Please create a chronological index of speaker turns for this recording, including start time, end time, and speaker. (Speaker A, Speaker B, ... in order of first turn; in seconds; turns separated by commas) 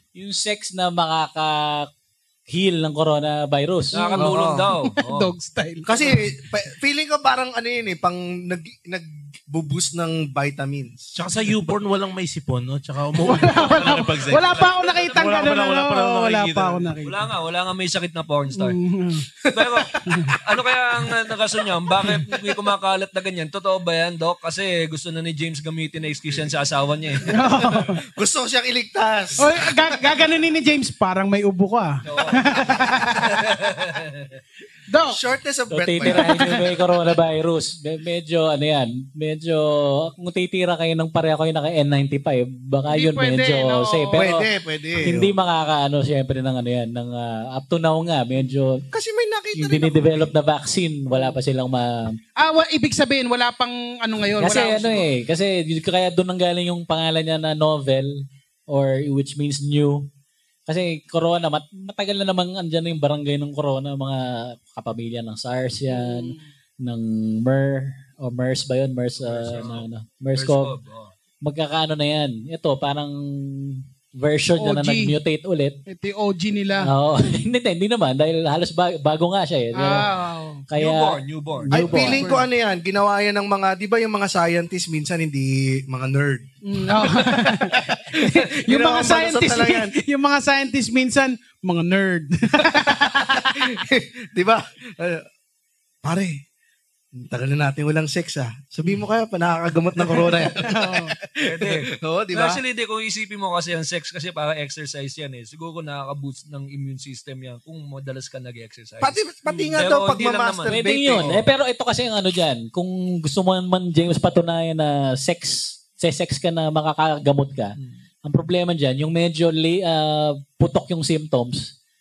Speaker A: 0.1-1.9, Speaker A: 2.5-4.1, Speaker B: 3.9-5.3, Speaker C: 4.1-6.2, Speaker D: 4.2-4.7, Speaker D: 5.8-11.1, Speaker E: 11.2-16.9, Speaker C: 13.2-17.2, Speaker B: 17.0-18.8, Speaker C: 18.5-19.2, Speaker D: 19.4-20.4, Speaker B: 19.5-19.9, Speaker C: 20.1-20.3, Speaker B: 20.4-27.3, Speaker C: 27.2-28.0, Speaker D: 27.9-30.0, Speaker C: 29.4-33.4, Speaker B: 32.0-32.5, Speaker B: 33.4-34.4, Speaker C: 34.9-35.2, Speaker D: 35.1-36.3, Speaker A: 35.7-44.5, Speaker C: 36.1-36.6, Speaker C: 42.9-44.2, Speaker D: 44.1-45.3, Speaker A: 45.0-48.8, Speaker D: 48.9-50.3, Speaker A: 49.5-52.2, Speaker C: 52.4-55.0, Speaker A: 54.4-60.1, Speaker A: 60.7-70.7, Speaker C: 65.9-66.4, Speaker B: 69.2-71.1, Speaker A: 71.4-75.8, Speaker C: 74.6-75.1, Speaker C: 75.9-76.9, Speaker A: 76.8-80.1, Speaker C: 79.7-80.6, Speaker A: 80.7-82.3, Speaker B: 80.8-81.7, Speaker D: 81.7-89.9, Speaker C: 81.8-82.4, Speaker C: 86.6-93.5, Speaker D: 92.7-95.2, Speaker D: 96.0-96.4, Speaker D: 97.1-102.6, Speaker C: 100.1-101.1, Speaker B: 101.4-109.2, Speaker D: 109.0-111.4, Speaker C: 109.5-109.7, Speaker B: 109.8-110.8, Speaker A: 110.7-121.7